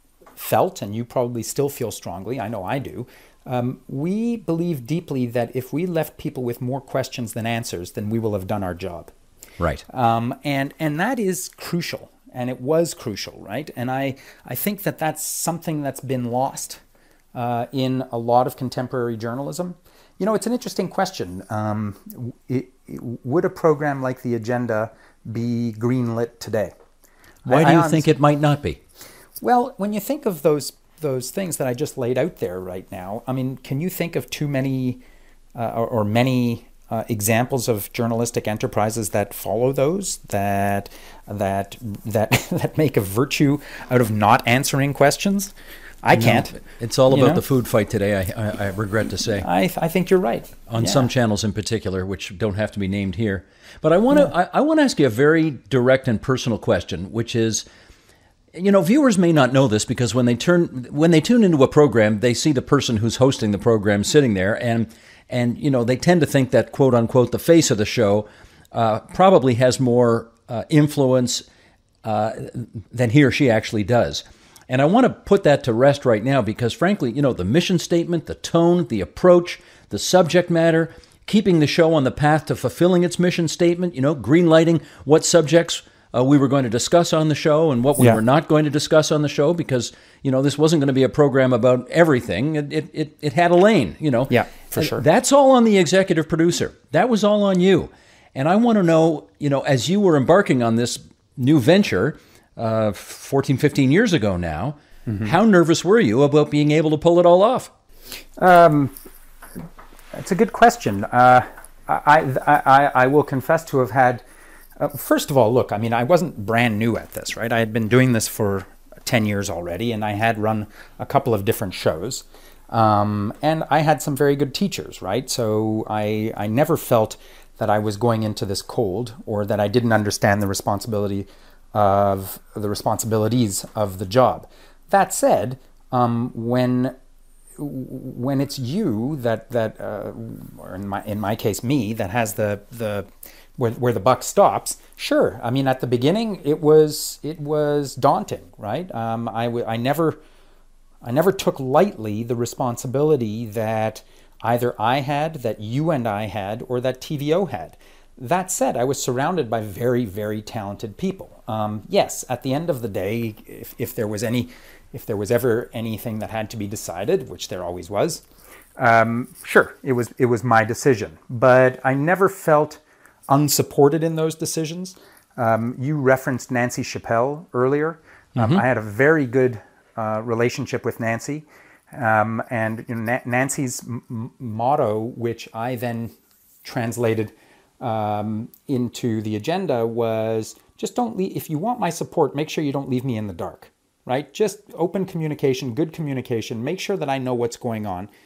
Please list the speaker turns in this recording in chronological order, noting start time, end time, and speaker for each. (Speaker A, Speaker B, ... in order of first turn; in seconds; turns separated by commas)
Speaker A: 0.4-9.1, Speaker A: 9.9-16.8, Speaker A: 17.3-26.7, Speaker A: 27.4-28.1, Speaker B: 27.4-28.8, Speaker A: 29.4-35.0, Speaker A: 35.5-47.4, Speaker B: 46.1-49.5, Speaker A: 49.4-51.1, Speaker B: 50.7-57.6, Speaker B: 58.5-71.5, Speaker B: 72.0-107.7, Speaker A: 94.3-95.0, Speaker A: 105.1-105.3, Speaker A: 108.4-108.9, Speaker A: 110.1-114.2, Speaker A: 114.8-136.9, Speaker A: 137.6-150.2, Speaker A: 151.0-168.2, Speaker A: 168.8-198.1, Speaker B: 178.3-178.6